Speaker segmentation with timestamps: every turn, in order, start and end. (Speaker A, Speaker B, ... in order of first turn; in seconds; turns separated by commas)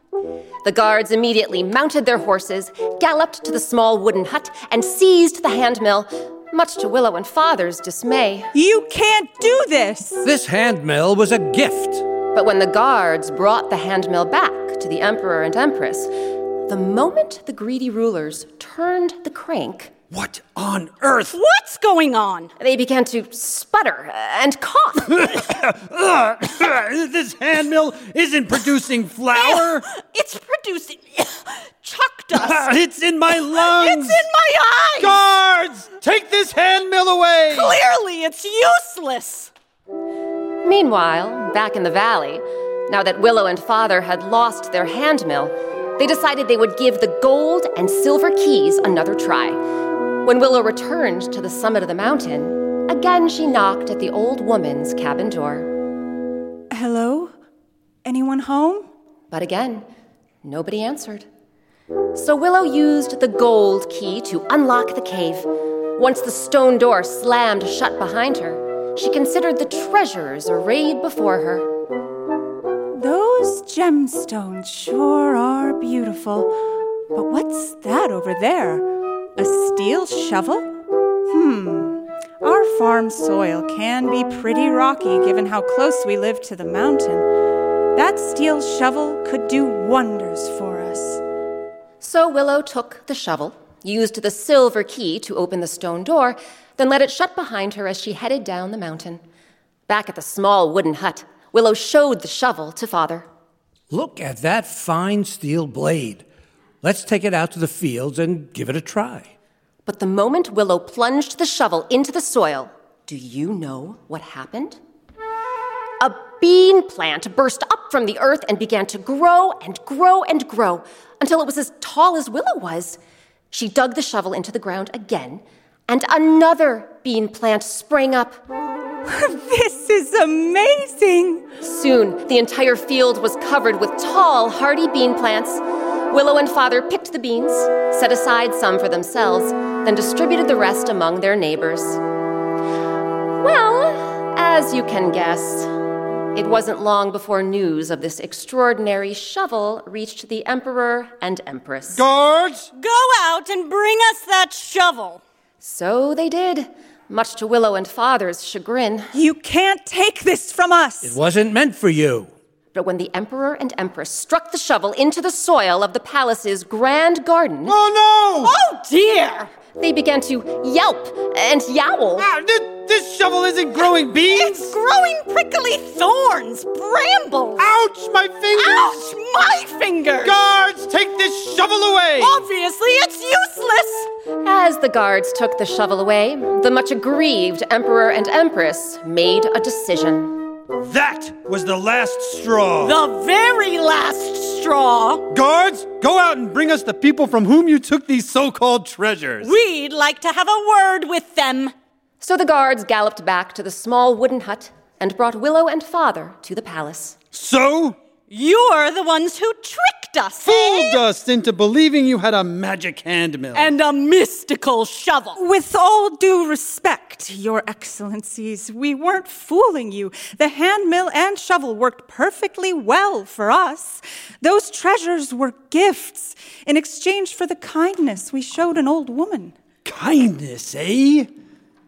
Speaker A: 0.6-8.5, Speaker B: 8.5-10.2, Speaker C: 10.2-12.0, Speaker A: 12.3-16.1, Speaker A: 16.7-19.9, Speaker D: 20.1-21.4, Speaker E: 21.3-22.5, Speaker A: 22.6-25.2, Speaker D: 25.1-29.8, Speaker E: 29.3-32.7, Speaker D: 32.4-34.2, Speaker E: 33.3-35.2, Speaker D: 35.0-37.8, Speaker E: 37.5-39.5, Speaker A: 40.6-49.6, Speaker A: 50.2-55.7, Speaker B: 56.7-57.3, Speaker B: 58.0-58.9, Speaker A: 59.3-59.8, Speaker A: 60.4-61.2, Speaker A: 62.1-71.7, Speaker B: 72.9-76.5, Speaker B: 77.1-78.8, Speaker B: 79.4-80.7, Speaker B: 81.3-87.2, Speaker B: 87.9-91.2, Speaker A: 92.0-99.2, Speaker A: 99.9-103.2, Speaker C: 103.9-106.2, Speaker C: 106.8-109.3, Speaker A: 109.8-114.8, Speaker A: 116.0-123.0, Speaker A: 123.5-128.4, Speaker B: 129.1-131.4, Speaker A: 131.6-142.0, Speaker A: 143.4-145.7, Speaker A: 146.3-152.0, Speaker D: 151.9-152.7, Speaker E: 152.7-155.2, Speaker A: 155.6-159.1, Speaker B: 159.1-161.1, Speaker C: 161.0-162.3, Speaker A: 162.7-167.7, Speaker D: 167.6-168.5, Speaker E: 168.4-169.5, Speaker A: 169.8-172.2, Speaker D: 172.2-174.8, Speaker E: 173.8-177.7, Speaker D: 177.6-179.0, Speaker E: 178.5-180.3, Speaker D: 180.2-182.4, Speaker E: 182.2-184.1, Speaker A: 184.4-190.4, Speaker D: 190.8-192.9, Speaker E: 192.8-195.2, Speaker D: 195.3-199.5, Speaker E: 199.4-201.7, Speaker A: 202.2-207.2, Speaker D: 207.3-208.0, Speaker E: 208.3-211.0, Speaker D: 210.4-213.7, Speaker E: 213.5-215.4, Speaker B: 215.4-229.5, Speaker D: 229.8-231.3